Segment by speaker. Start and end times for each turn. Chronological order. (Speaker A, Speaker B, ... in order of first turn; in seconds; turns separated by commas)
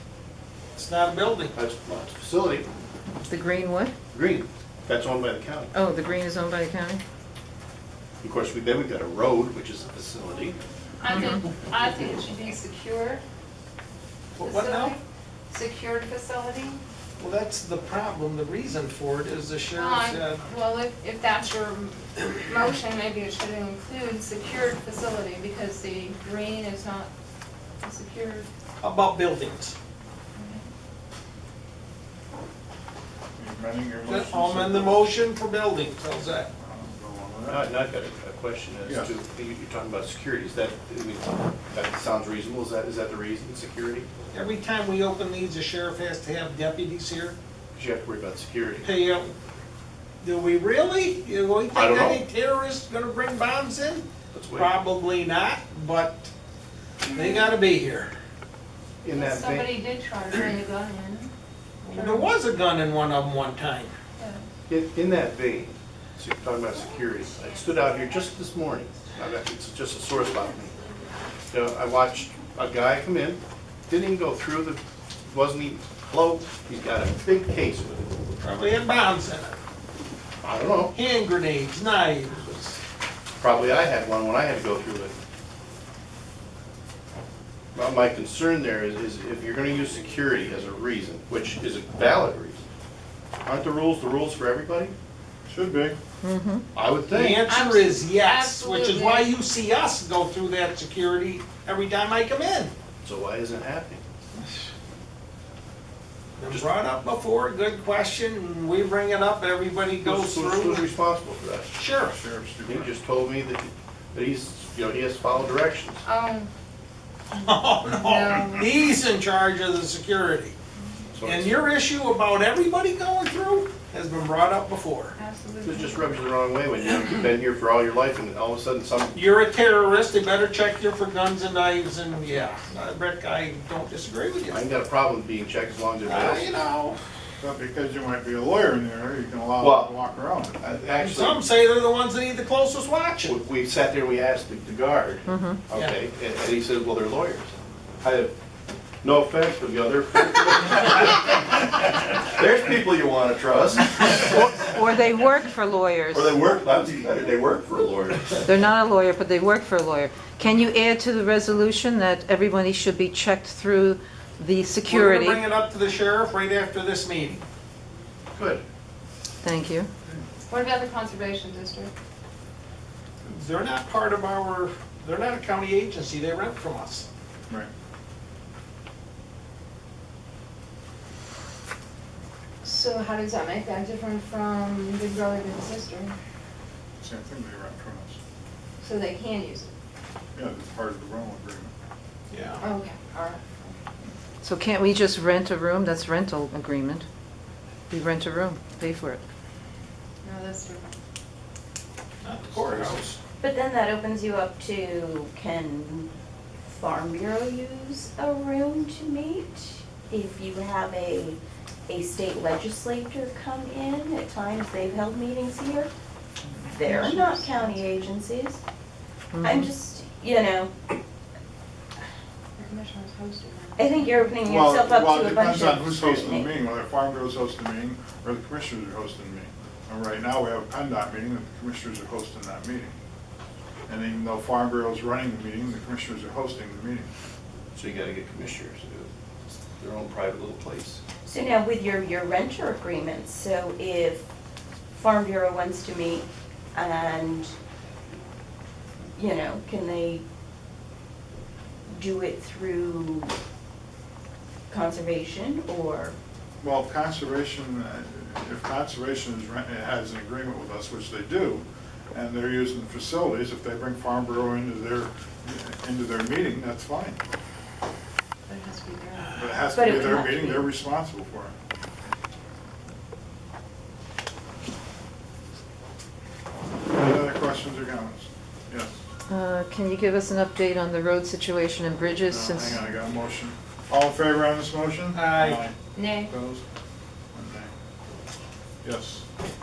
Speaker A: 0.8-1.5, Speaker B: 1.6-2.7, Speaker C: 3.3-3.9, Speaker B: 4.1-5.7, Speaker C: 5.7-7.0, Speaker B: 8.2-10.6, Speaker D: 11.0-13.2, Speaker C: 11.1-11.4, Speaker A: 14.3-15.0, Speaker D: 14.4-16.8, Speaker A: 17.2-20.4, Speaker D: 19.7-27.1, Speaker D: 27.8-28.5, Speaker A: 28.8-29.8, Speaker D: 30.4-30.7, Speaker E: 33.4-35.1, Speaker A: 34.1-36.5, Speaker E: 36.6-37.7, Speaker B: 37.5-44.1, Speaker E: 38.8-39.2, Speaker A: 44.3-47.4, Speaker B: 47.8-48.9, Speaker A: 48.8-49.3, Speaker A: 50.2-56.3, Speaker B: 51.7-52.2, Speaker B: 54.3-54.7, Speaker D: 57.0-57.5, Speaker A: 57.1-58.1, Speaker B: 59.0-59.7, Speaker D: 59.1-61.3, Speaker D: 61.8-62.3, Speaker A: 61.9-63.9, Speaker D: 64.2-64.5, Speaker B: 64.7-70.8, Speaker B: 71.5-78.1, Speaker A: 78.4-79.6, Speaker B: 80.4-80.9, Speaker A: 80.9-82.8, Speaker B: 83.4-85.1, Speaker B: 87.8-92.6, Speaker B: 93.5-94.9, Speaker E: 95.5-96.0, Speaker C: 96.2-96.7, Speaker B: 96.7-97.5, Speaker A: 97.1-102.7, Speaker D: 97.5-99.3, Speaker B: 103.0-104.0, Speaker A: 106.4-110.8, Speaker B: 110.0-111.7, Speaker A: 111.8-112.2, Speaker E: 112.1-112.9, Speaker B: 112.7-116.0, Speaker D: 116.0-116.5, Speaker D: 117.3-118.7, Speaker A: 117.3-120.5, Speaker B: 121.1-121.6, Speaker A: 121.2-125.2, Speaker D: 125.2-126.1, Speaker B: 125.6-129.2, Speaker A: 129.1-134.7, Speaker B: 134.5-136.6, Speaker A: 136.0-137.0, Speaker E: 137.4-140.6, Speaker B: 139.6-139.9, Speaker B: 140.6-141.4, Speaker A: 141.0-143.3, Speaker B: 143.2-148.3, Speaker C: 145.3-145.6, Speaker B: 149.0-154.7, Speaker C: 154.2-156.3, Speaker B: 156.1-158.5, Speaker C: 158.4-165.4, Speaker A: 164.9-167.4, Speaker B: 168.3-168.6, Speaker C: 169.4-169.9, Speaker D: 170.5-171.9, Speaker A: 173.3-177.1, Speaker D: 182.6-186.2, Speaker E: 187.0-188.2, Speaker D: 188.8-189.7, Speaker E: 190.3-191.7, Speaker A: 192.3-192.7, Speaker D: 192.6-193.8, Speaker C: 194.4-197.1, Speaker C: 197.9-199.2, Speaker D: 200.2-201.0, Speaker A: 202.2-203.2, Speaker E: 202.6-203.1, Speaker F: 203.4-206.1, Speaker F: 206.7-215.9, Speaker F: 216.6-218.6, Speaker D: 216.9-217.9, Speaker C: 219.3-219.7, Speaker F: 219.4-220.8, Speaker D: 222.6-224.3, Speaker F: 223.8-226.6, Speaker E: 224.4-232.9, Speaker E: 233.9-237.1, Speaker B: 237.8-239.1, Speaker B: 239.8-241.0, Speaker F: 241.3-244.2, Speaker F: 244.9-247.6, Speaker F: 249.2-250.2, Speaker F: 251.9-253.3, Speaker F: 254.7-256.2, Speaker E: 256.6-267.2, Speaker D: 268.5-269.7, Speaker E: 269.3-271.5, Speaker F: 269.7-270.7, Speaker E: 276.9-278.9, Speaker C: 279.3-282.8, Speaker E: 282.3-286.6, Speaker A: 285.1-285.6, Speaker D: 285.9-286.3, Speaker E: 287.3-287.7, Speaker E: 288.8-289.2